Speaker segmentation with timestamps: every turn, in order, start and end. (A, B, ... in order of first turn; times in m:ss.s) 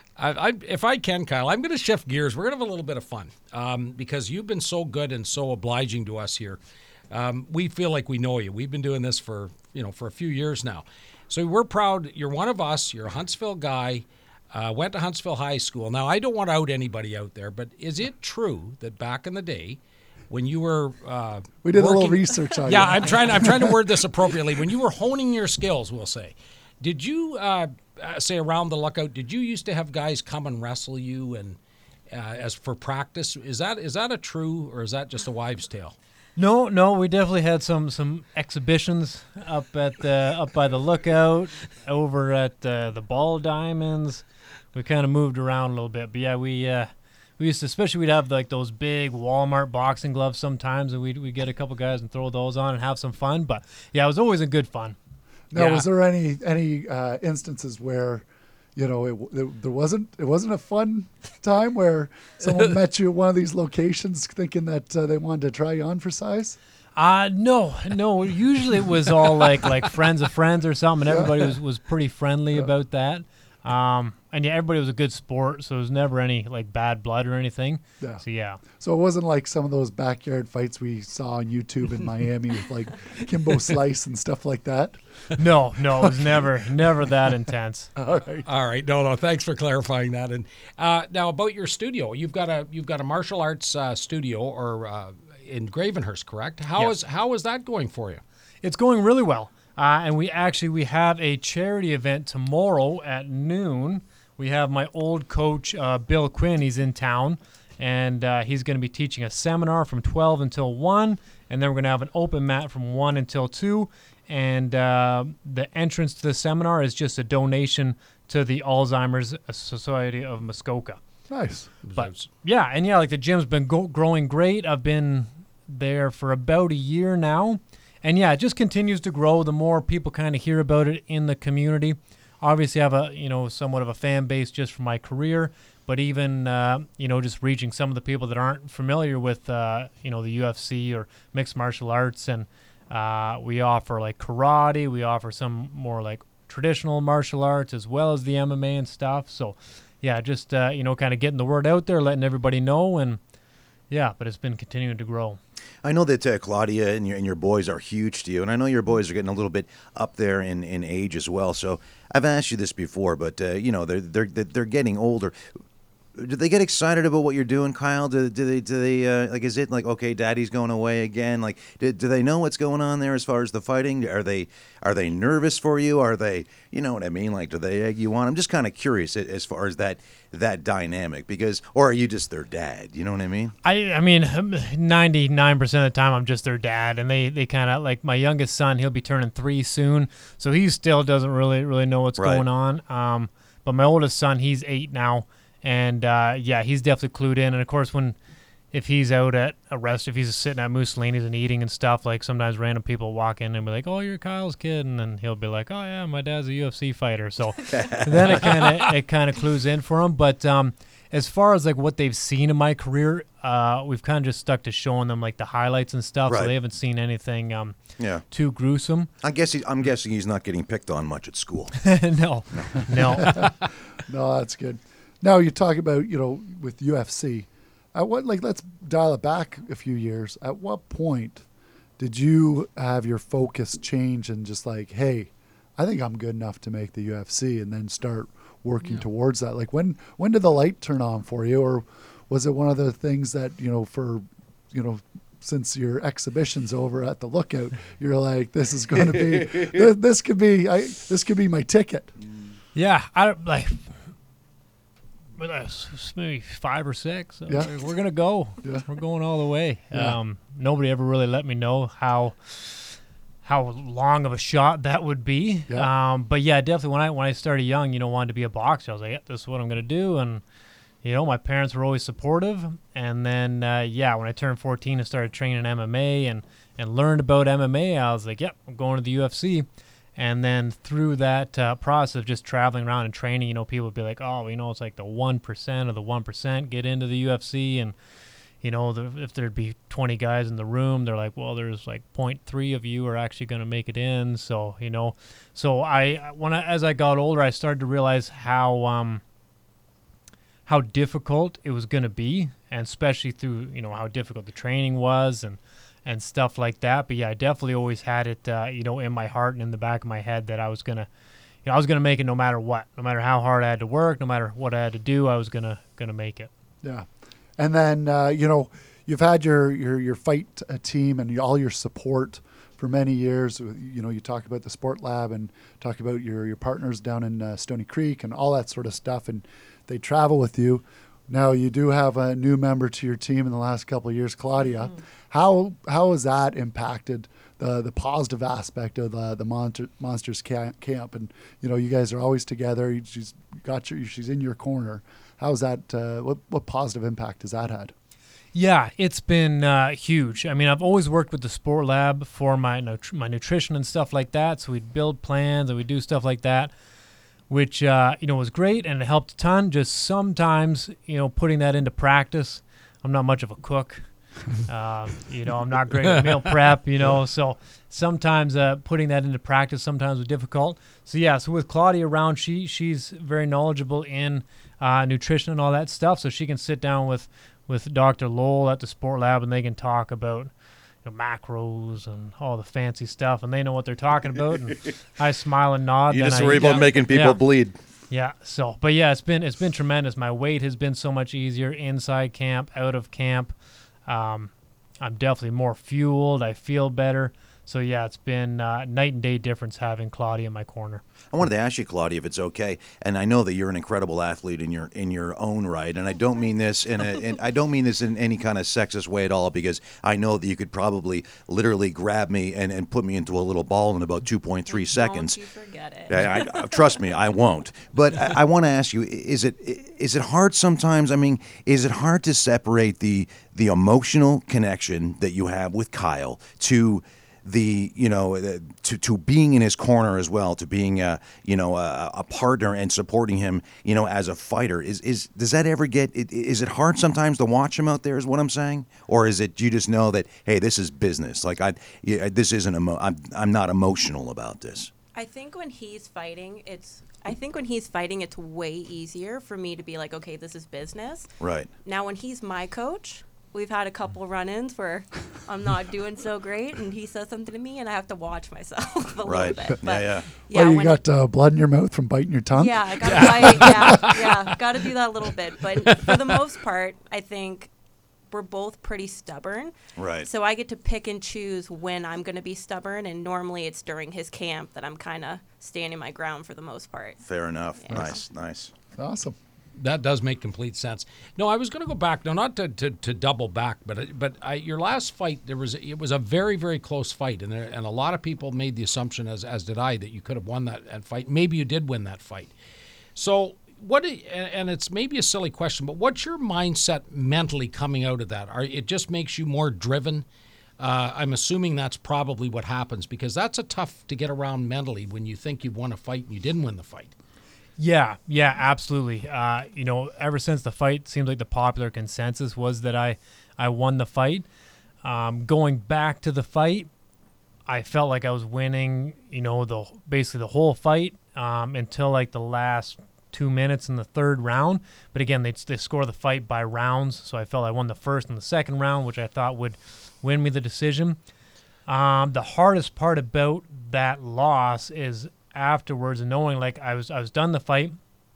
0:00.2-0:06.6 A
0:07.1-0:19.8 A
0:20.3-0:31.6 A
0:21.6-0:23.8 B
0:32.1-0:36.0 A
0:36.4-0:55.0 C
0:55.5-1:06.6 B
0:55.5-0:55.8 C
1:07.0-1:18.6 C
1:11.1-1:11.4 B
1:18.0-1:25.0 B
1:25.4-1:27.9 C
1:28.0-1:28.4 B
1:28.4-1:38.2 A
1:38.6-2:01.0 C
2:01.3-2:01.7 B
2:01.8-2:02.3 A
2:01.9-2:33.2 C
2:33.9-2:35.4 C
2:35.8-2:45.4 D
2:46.2-3:03.6 D
3:03.6-3:18.2 C
3:12.2-3:12.4 D
3:18.7-3:37.8 C
3:27.7-3:28.9 D
3:36.3-3:36.5 D
3:38.0-3:38.2 D
3:38.3-3:39.1 C
3:39.2-3:41.8 D
3:41.8-3:43.5 C
3:43.2-3:51.4 B
3:52.0-4:12.1 B
4:12.7-4:13.9 C
4:15.4-4:30.4 C
4:17.5-4:17.7 B
4:31.0-4:47.9 C
4:48.6-4:59.2 C
5:00.6-5:11.1 C
5:11.6-5:16.5 C
5:16.8-5:47.9 B
5:48.5-5:56.7 C
5:57.5-6:20.5 C
6:06.2-6:06.5 A
6:21.0-6:27.4 C
6:26.1-6:27.8 D
6:28.1-6:33.5 C
6:34.1-6:41.0 C
6:41.3-6:55.4 D
6:54.7-6:57.1 E
6:56.1-7:24.9 D
7:25.1-7:31.3 E
7:31.4-7:31.7 D
7:31.8-7:41.0 E
7:39.2-7:40.3 D
7:40.5-7:44.2 B
7:42.5-7:47.7 E
7:43.0-7:44.6 A
7:45.9-7:46.4 A
7:48.3-7:57.2 E
7:50.0-7:50.3 D
7:57.2-7:58.7 D
7:57.8-7:58.2 E
7:58.9-7:59.4 B
7:59.8-8:12.5 A
8:13.2-8:20.2 A
8:20.8-8:27.1 A
8:27.8-8:34.4 C
8:35.0-8:36.9 C
8:37.7-8:51.2 C
8:51.9-8:58.0 C